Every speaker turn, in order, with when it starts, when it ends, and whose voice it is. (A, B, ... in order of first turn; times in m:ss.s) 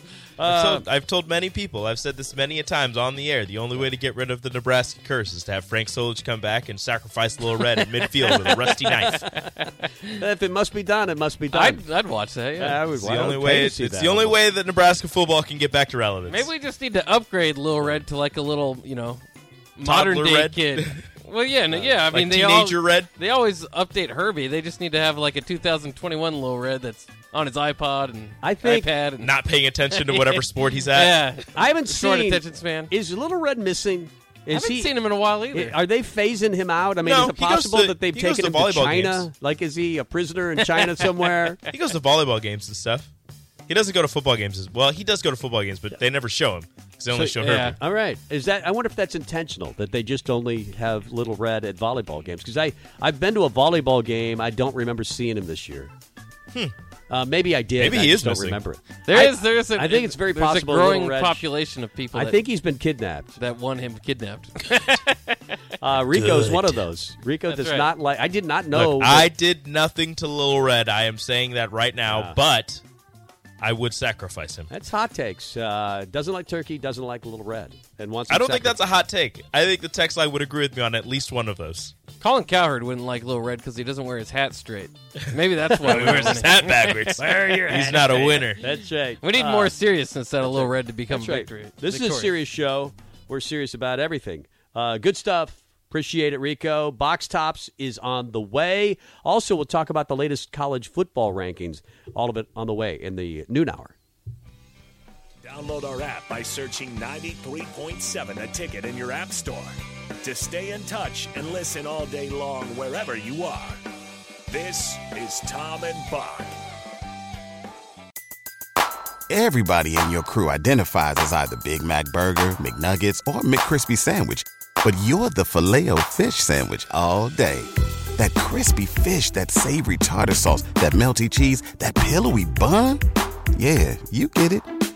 0:00.4-0:00.9 A
0:00.4-0:09.2 B
0:07.6-0:10.1 C
0:09.1-0:09.4 A
0:10.2-0:11.8 A
0:11.5-0:12.8 C
0:12.6-0:14.4 A
0:13.0-0:16.5 B
0:16.3-0:19.2 C
0:19.8-0:29.3 C
0:19.8-0:21.0 B
0:21.8-0:23.1 B
0:28.4-0:28.9 A
0:29.2-0:31.3 B
0:29.9-0:32.9 C
0:31.5-0:34.9 A
0:34.5-0:35.8 C
0:35.5-0:41.6 A
0:37.0-0:39.3 B
0:40.6-0:41.0 C
0:41.7-0:43.1 B
0:43.7-0:47.8 B
0:47.1-0:55.9 A
0:47.4-0:47.7 C
0:57.1-1:01.4 A
0:57.8-0:58.6 B
0:59.0-1:02.4 C
1:02.1-1:03.3 A
1:03.4-1:05.5 C
1:05.8-1:09.3 A
1:06.1-1:06.6 B
1:07.5-1:07.9 C
1:08.7-1:12.8 B
1:12.1-1:12.4 A
1:13.6-1:14.7 B
1:14.7-1:18.8 A
1:18.3-1:21.9 B
1:22.2-1:32.3 C
1:25.8-1:28.6 B
1:28.6-1:29.7 A
1:30.4-1:43.9 A
1:45.4-1:53.8 D
1:54.5-1:56.5 D
1:59.3-2:13.0 E
2:13.5-2:14.7 E